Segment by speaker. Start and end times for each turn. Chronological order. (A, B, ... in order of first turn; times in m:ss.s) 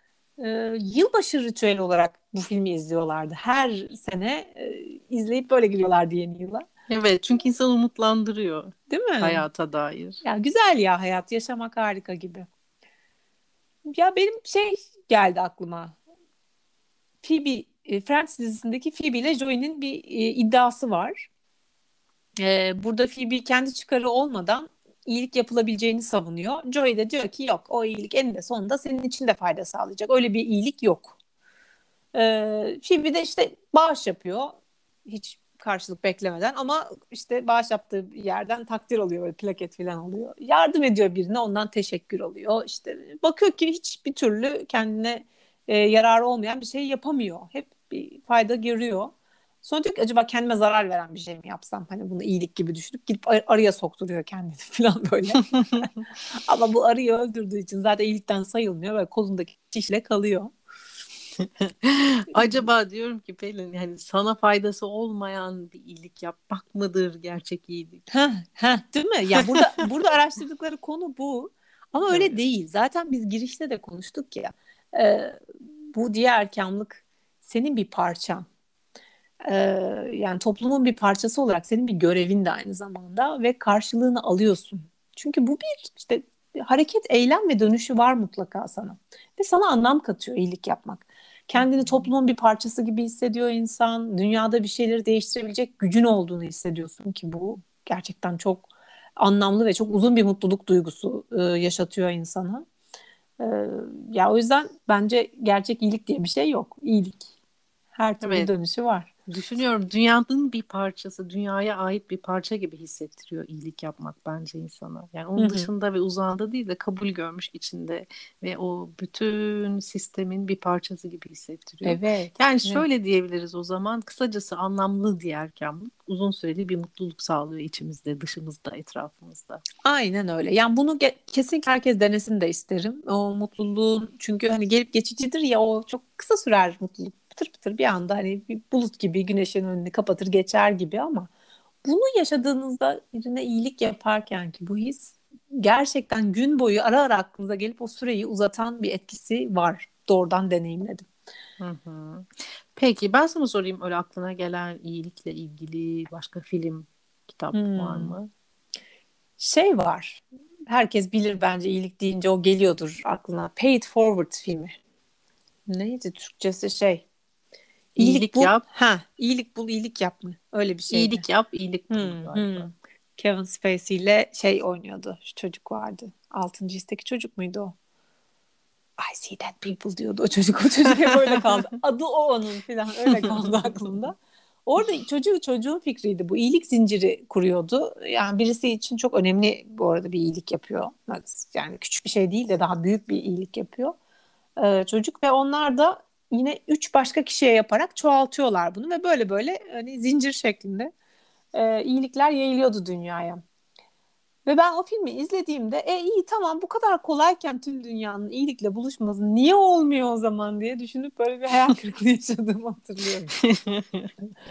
0:00.4-0:06.7 A
0:06.9-0:10.2 B
0:08.9-0:09.4 A
0:10.2-0:12.5 A
0:13.9-0:16.0 A
0:17.2-0:21.3 A
0:22.4-0:31.1 A
0:32.1-0:49.1 A
0:49.6-1:00.5 A
1:01.4-1:08.0 B
1:02.3-1:02.6 A
1:08.1-1:15.4 A
1:12.1-1:12.4 B
1:15.9-1:18.5 A
1:19.5-1:42.7 A
1:31.6-1:32.0 B
1:43.4-1:47.3 A
1:48.0-1:49.1 A
1:48.2-1:48.5 B
1:49.3-2:09.6 B
1:55.4-1:55.7 A
2:01.8-2:02.8 A
2:09.8-2:21.3 A
2:21.8-2:31.1 A
2:31.6-2:38.3 B
2:37.5-2:38.2 A
2:39.4-2:44.8 A
2:45.7-2:47.0 A
2:48.0-2:48.6 B
2:48.0-2:51.2 A
2:50.9-2:52.7 B
2:51.9-2:57.7 A
2:59.0-3:14.0 A
3:03.1-3:03.5 B
3:14.6-3:20.9 A
3:21.5-3:23.4 A
3:24.4-3:33.4 A
3:33.4-3:34.1 B